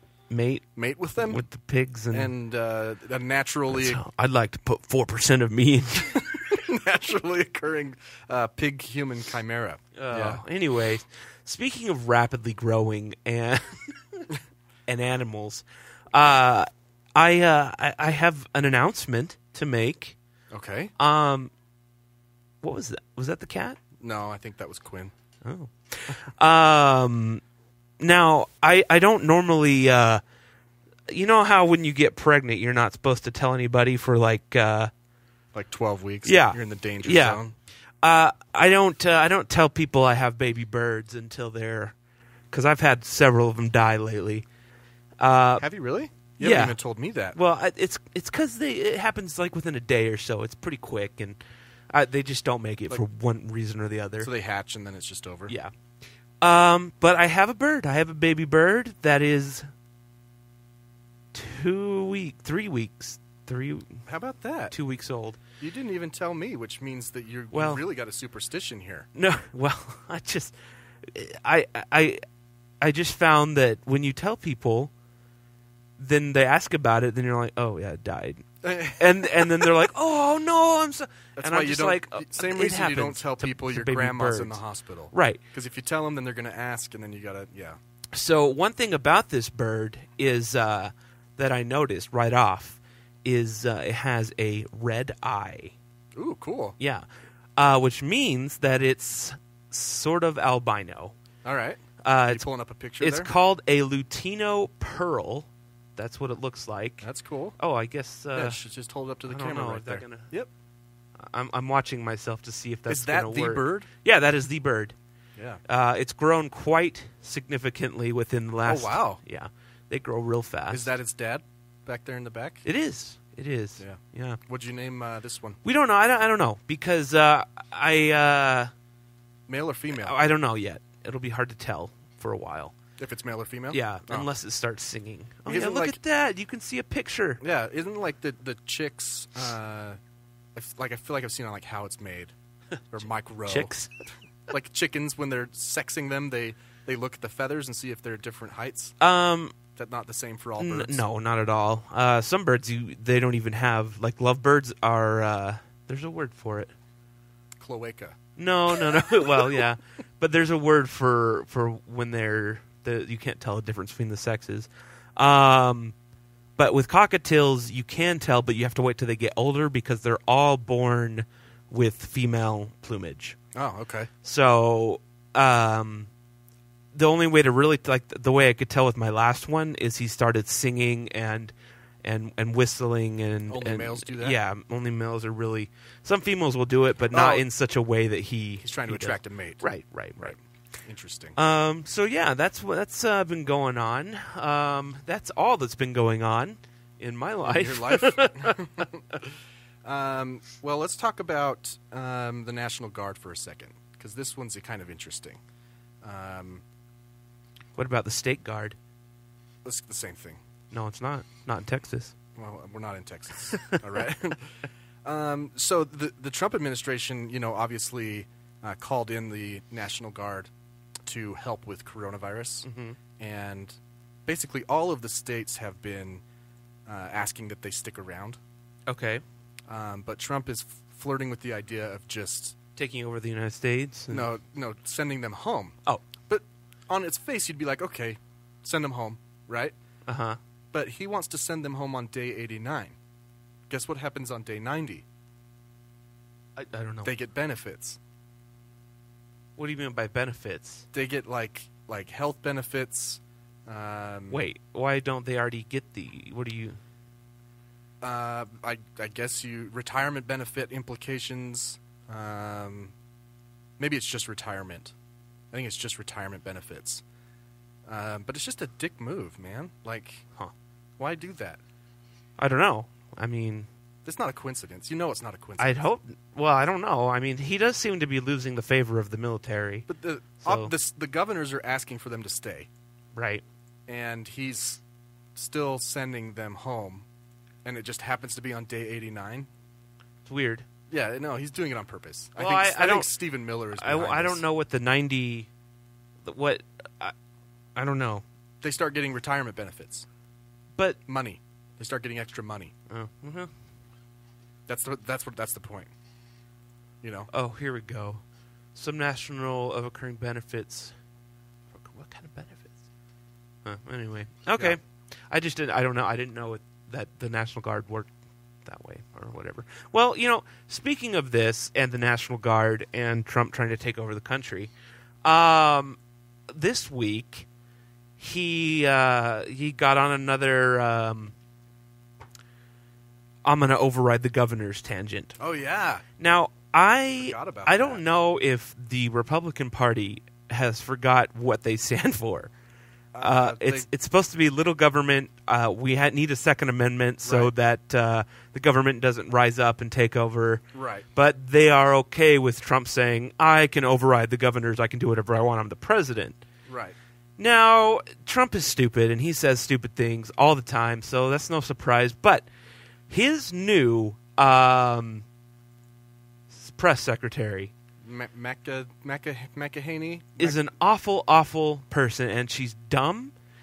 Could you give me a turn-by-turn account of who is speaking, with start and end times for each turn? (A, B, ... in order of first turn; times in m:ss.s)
0:00.3-0:00.6 A
0:00.8-0:01.4 B
0:01.2-0:02.3 A
0:02.1-0:04.0 B
0:03.7-0:06.2 A
0:06.1-0:10.4 B
0:10.0-0:14.2 A
0:14.9-0:20.2 A
0:20.5-0:20.9 B
0:21.0-0:21.5 A
0:22.6-0:23.8 A
0:24.0-0:25.1 B
0:25.4-0:27.4 A
0:28.0-0:30.2 A
0:31.1-0:34.9 A
0:35.5-0:37.5 B
0:36.2-0:37.4 A
0:38.0-0:41.9 A
0:42.5-0:44.4 A
0:45.2-0:45.6 A
0:45.6-0:47.4 B
0:46.4-0:46.8 A
0:47.3-0:51.4 A
0:51.9-0:54.3 A
0:54.2-0:55.5 B
0:56.4-0:59.7 A
1:01.3-1:04.0 A
1:04.0-1:04.7 B
1:04.7-1:05.4 A
1:05.6-1:09.1 B
1:07.5-1:07.8 A
1:09.1-1:10.5 A
1:11.1-1:12.2 A
1:12.8-1:14.9 A
1:16.0-1:24.6 A
1:18.6-1:19.7 B
1:21.4-1:27.8 B
1:25.1-1:25.4 A
1:28.1-1:35.7 A
1:36.1-1:36.8 B
1:36.8-1:41.1 A
1:41.4-1:43.3 B
1:42.0-1:42.5 A
1:43.0-1:47.1 A
1:47.0-1:47.6 B
1:47.6-1:48.6 A
1:48.3-1:50.5 B
1:49.2-1:50.3 A
1:51.2-1:54.9 A
1:52.9-1:53.9 B
1:55.4-1:55.6 B
1:55.7-2:00.9 A
1:58.6-1:59.2 B
2:00.7-2:02.6 B
2:02.6-2:04.4 A
2:03.8-2:05.6 B
2:05.6-2:08.7 A
2:09.5-2:10.2 B
2:10.0-2:12.8 A
2:13.0-2:14.3 B
2:13.7-2:17.4 A
2:15.4-2:16.0 B
2:17.4-2:20.0 B
2:20.5-2:22.3 B
2:22.9-2:23.7 B
2:23.4-2:23.9 A
2:24.5-2:28.9 B
2:29.0-2:29.6 A
2:29.7-2:31.0 B
2:30.6-2:36.7 A
2:37.6-2:38.2 B
2:38.4-2:45.9 A
2:39.2-2:39.4 B
2:46.6-2:53.4 A
2:53.5-2:54.1 B
2:54.2-2:56.1 A
2:56.9-3:01.5 A
3:02.0-3:10.4 A
3:03.5-3:04.4 B
3:07.1-3:07.4 B
3:08.6-3:09.6 B
3:10.2-3:11.4 B
3:11.4-3:18.8 A
3:17.4-3:19.3 B
3:19.8-3:25.4 B
3:26.0-3:26.6 B
3:27.8-3:28.8 A
3:29.6-3:30.4 B
3:30.7-3:32.1 A
3:32.4-3:34.5 B
3:35.0-3:40.5 B
3:41.0-3:46.2 B
3:42.6-3:43.0 A
3:46.8-3:48.4 B
3:48.9-3:49.2 A
3:49.7-3:52.6 B
3:52.8-3:54.3 A
3:54.1-3:55.8 B
3:56.3-3:59.7 B
4:00.1-4:00.4 A
4:00.7-4:03.0 B
4:03.7-4:05.0 B
4:06.6-4:07.1 A
4:07.0-4:08.0 B
4:09.6-4:10.9 A
4:10.9-4:14.4 B
4:14.3-4:16.8 A
4:18.0-4:22.9 B
4:23.8-4:24.9 B
4:25.5-4:27.0 B
4:27.8-4:30.2 B
4:31.0-4:31.6 B
4:32.4-4:33.7 A
4:34.0-4:35.8 B
4:35.6-4:39.9 A
4:39.9-4:42.7 B
4:40.4-4:40.7 A
4:43.1-4:43.4 A
4:43.9-4:44.8 B
4:45.3-4:47.0 B
4:47.6-4:49.5 B
4:50.2-4:50.7 A
4:50.9-4:54.4 B
4:52.4-4:53.1 A
4:53.7-4:55.5 A
4:56.2-4:57.1 A
4:57.8-4:58.2 A
4:58.6-5:00.1 B
5:01.1-5:02.7 B
5:02.9-5:03.5 A
5:04.7-5:05.9 B
5:07.0-5:07.3 B
5:07.3-5:08.2 A
5:08.7-5:10.9 A
5:11.7-5:12.8 A
5:13.6-5:18.1 A
5:18.6-5:24.7 A
5:25.2-5:26.0 A
5:26.5-5:27.5 A
5:28.2-5:31.3 A
5:33.4-5:35.4 A
5:35.4-5:36.0 B
5:36.2-5:42.5 A
5:37.2-5:38.0 B
5:43.1-5:43.9 B
5:43.2-5:50.6 A
5:47.2-5:47.5 B
5:50.7-5:51.0 B
5:51.1-5:56.4 A
5:56.7-5:57.0 B
5:57.4-6:02.5 A
6:03.1-6:05.2 A
6:06.5-6:07.7 A
6:08.0-6:10.6 B
6:10.4-6:13.3 A